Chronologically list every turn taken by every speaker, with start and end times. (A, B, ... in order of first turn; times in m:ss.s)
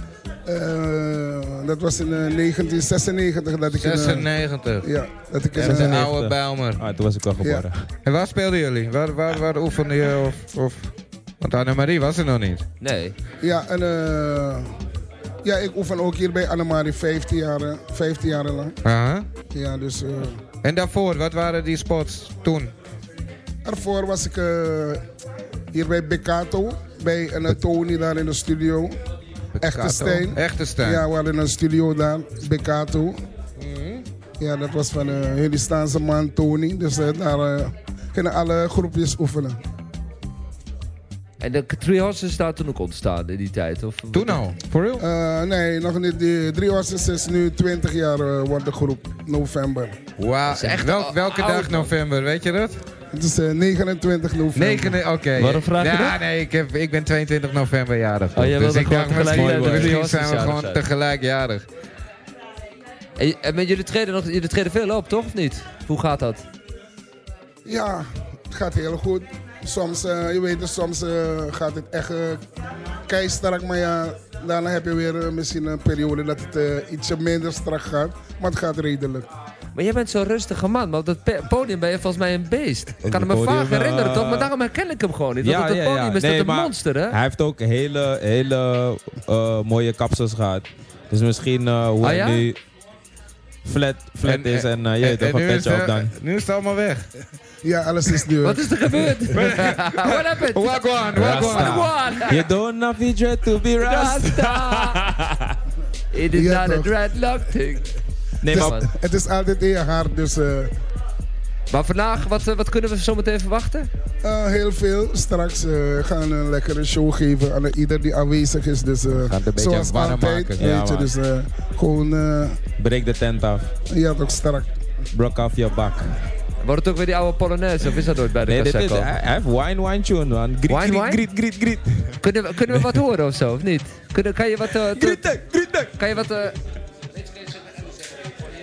0:00.4-0:04.3 A
0:03.8-0:04.9 B
0:04.8-0:06.0 A
0:05.5-0:07.8 C
0:05.6-0:06.8 B
0:07.4-0:07.7 A
0:08.0-0:12.6 B
0:12.8-0:13.2 D
0:13.4-0:14.7 A
0:15.4-0:18.8 A
0:18.8-0:19.3 B
0:19.5-0:20.4 A
0:20.6-0:22.7 B
0:23.6-0:25.0 A
0:25.7-0:28.9 A
0:29.5-0:31.0 B
0:29.6-0:33.2 A
0:33.6-0:34.0 B
0:34.4-0:39.6 A
0:41.4-0:44.4 D
0:44.1-0:45.0 B
0:45.0-0:50.0 A
0:50.2-0:52.8 B
0:50.5-0:51.9 D
0:53.1-0:55.0 A
0:54.5-1:01.6 B
0:55.4-0:56.2 D
0:58.3-1:00.8 D
0:59.2-1:00.0 C
1:03.2-1:06.4 D
1:07.6-1:12.4 A
1:13.1-1:19.3 A
1:19.7-1:27.2 D
1:23.0-1:24.5 C
1:25.4-1:32.6 C
1:32.0-1:32.4 D
1:33.6-1:36.1 C
1:34.2-1:37.1 B
1:37.6-1:38.7 A
1:38.4-1:42.4 D
1:39.3-1:41.9 B
1:41.1-1:45.0 C
1:43.8-1:45.3 D
1:46.1-1:47.9 D
1:46.3-1:46.9 A
1:48.4-1:48.8 C
1:48.5-1:48.9 D
1:48.5-1:50.7 A
1:51.7-1:53.9 D
1:54.2-2:02.6 A
1:59.1-2:00.7 B
2:00.6-2:01.1 C
2:02.8-2:03.7 C
2:03.9-2:04.7 A
2:05.1-2:06.1 C
2:06.6-2:09.1 D
2:08.5-2:12.2 C
2:10.7-2:11.2 D
2:12.2-2:15.3 D
2:14.9-2:15.9 C
2:15.9-2:16.6 D
2:17.2-2:17.7 D